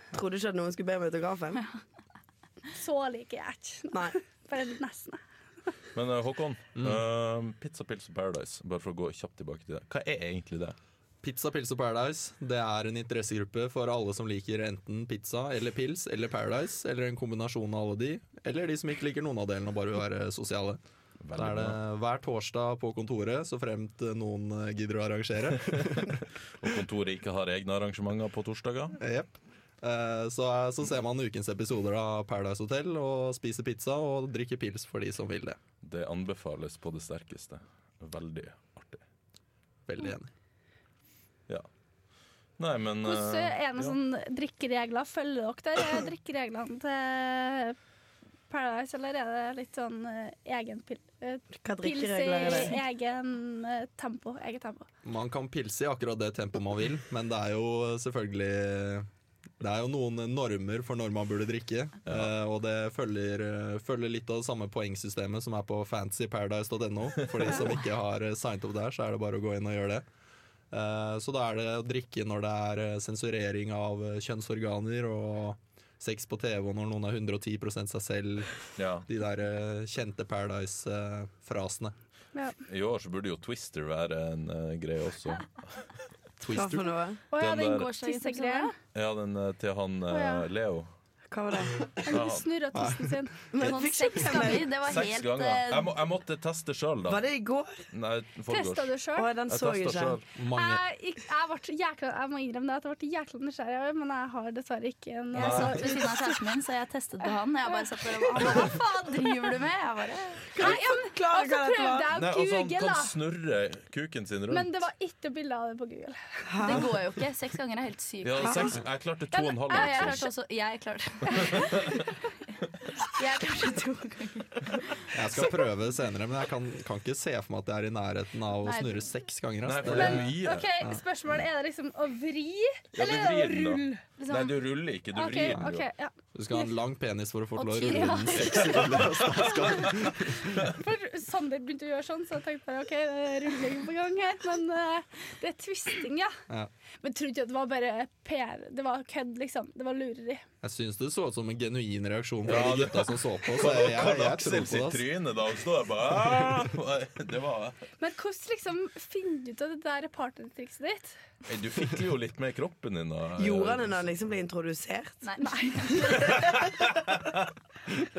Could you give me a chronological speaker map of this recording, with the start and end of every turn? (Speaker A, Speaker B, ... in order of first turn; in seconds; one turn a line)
Speaker A: 0.1-1.6
Speaker B: 2.7-5.2
Speaker A: 3.9-4.2
Speaker C: 5.9-10.8
Speaker D: 11.2-20.8
Speaker C: 21.2-21.8
Speaker D: 21.3-26.1
Speaker C: 25.6-29.0
Speaker D: 29.0-35.6
Speaker C: 35.8-39.0
Speaker D: 39.9-40.3
Speaker C: 42.6-44.0
Speaker B: 43.0-47.8
Speaker B: 48.5-54.9
Speaker A: 51.6-52.8
Speaker D: 55.0-59.1
Speaker D: 59.6-70.0
Speaker D: 70.7-81.9
Speaker C: 78.8-79.1
Speaker C: 82.7-85.8
Speaker D: 86.4-86.9
Speaker A: 86.5-87.2
Speaker B: 87.3-88.7
Speaker C: 87.4-87.9
Speaker E: 87.8-88.7
Speaker C: 88.9-90.9
Speaker B: 90.1-90.5
Speaker A: 91.3-91.8
Speaker B: 92.0-93.5
Speaker C: 92.1-92.4
Speaker D: 92.7-93.2
Speaker A: 93.5-94.7
Speaker E: 93.6-95.9
Speaker C: 94.7-97.2
Speaker A: 97.1-97.8
Speaker C: 97.9-98.9
Speaker B: 98.5-99.3
Speaker A: 99.2-100.2
Speaker C: 99.5-100.3
Speaker D: 100.3-100.8
Speaker B: 100.5-106.4
Speaker C: 105.3-105.8
Speaker E: 105.4-110.7
Speaker B: 107.9-109.5
Speaker A: 110.5-112.1
Speaker B: 110.5-113.1
Speaker C: 112.1-114.9
Speaker B: 114.5-116.8
Speaker A: 116.5-116.9
Speaker E: 116.6-118.8
Speaker C: 118.2-120.2
Speaker B: 118.4-118.8
Speaker B: 119.3-120.3
Speaker E: 119.7-121.9
Speaker B: 121.4-121.6
Speaker C: 121.5-121.9
Speaker E: 123.1-125.1
Speaker D: 125.1-131.0
Speaker E: 128.6-129.0
Speaker C: 129.6-130.7
Speaker B: 129.8-134.0
Speaker C: 132.9-135.9
Speaker E: 134.2-134.6
Speaker B: 135.1-136.7
Speaker D: 136.3-140.5
Speaker E: 137.6-138.6
Speaker B: 138.1-139.9
Speaker C: 138.3-140.6
Speaker B: 140.7-146.3
Speaker B: 147.0-150.4
Speaker D: 150.6-155.0
Speaker C: 152.4-157.8
Speaker B: 158.0-161.2
Speaker C: 161.4-164.1
Speaker A: 163.4-165.2
Speaker E: 165.2-166.6
Speaker B: 165.4-166.4
Speaker C: 166.2-167.3